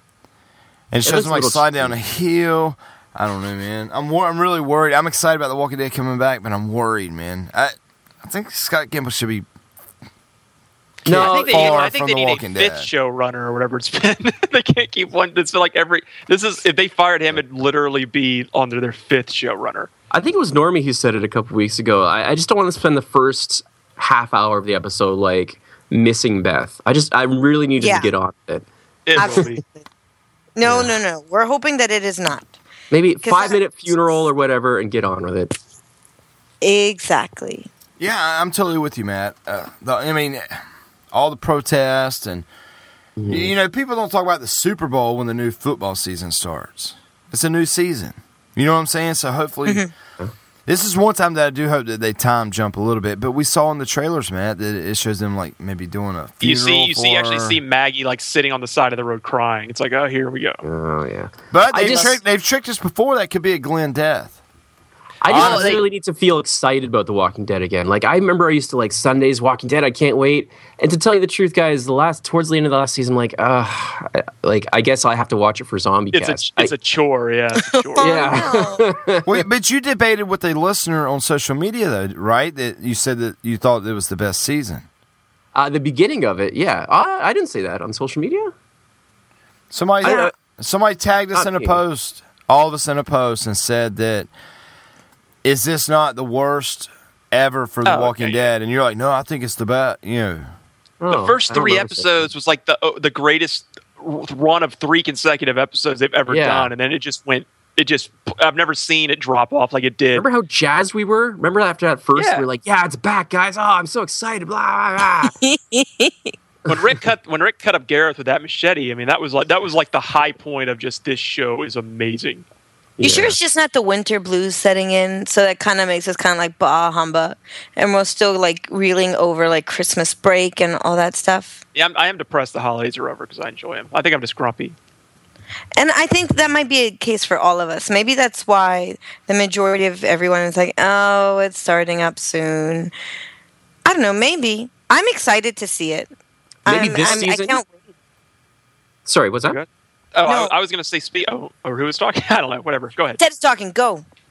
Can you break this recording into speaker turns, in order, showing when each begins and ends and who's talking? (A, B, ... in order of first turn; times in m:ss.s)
0:00.9-0:09.4 A
0:01.0-0:02.0 B
0:11.0-0:12.9 A
0:11.0-0:11.8 B
0:11.1-0:19.9 C
0:20.1-0:28.6 B
0:27.8-0:28.1 D
0:29.0-0:29.6 C
0:29.2-0:29.8 D
0:29.2-0:29.5 B
0:30.6-0:32.5 D
0:30.6-0:30.9 B
0:32.9-0:35.5 B
0:33.2-0:33.9 D
0:36.6-0:37.7 D
0:38.0-0:40.6 A
0:41.1-0:42.5 A
0:43.2-0:43.5 B
0:43.3-0:49.9 A
0:49.6-0:49.9 D
0:50.7-0:57.6 A
0:56.4-1:00.6 C
1:00.6-1:02.2 B
1:01.5-1:04.4 A
1:05.2-1:16.7 B
1:05.2-1:05.8 C
1:05.3-1:05.8 A
1:16.1-1:18.5 C
1:17.7-1:18.8 D
1:18.0-1:19.4 B
1:19.2-1:24.8 A
1:25.5-1:28.5 B
1:29.7-1:34.3 A
1:30.0-1:30.3 B
1:30.0-1:30.3 D
1:31.3-1:31.8 B
1:35.4-1:40.5 A
1:37.8-1:38.5 C
1:41.0-1:42.3 B
1:41.1-1:50.2 C
1:46.3-1:46.7 B
1:50.1-1:55.3 B
1:52.2-1:52.4 C
1:55.2-1:56.3 D
1:56.6-2:02.4 C
2:03.0-2:03.4 B
2:03.0-2:11.6 D
2:11.7-2:14.8 C
2:15.8-2:22.9 D
2:23.8-2:26.1 D
2:26.6-2:27.6 B
2:26.6-2:27.8 D
2:29.0-2:29.6 B
2:29.5-2:33.2 C
2:30.2-2:30.5 D
2:33.2-2:34.0 D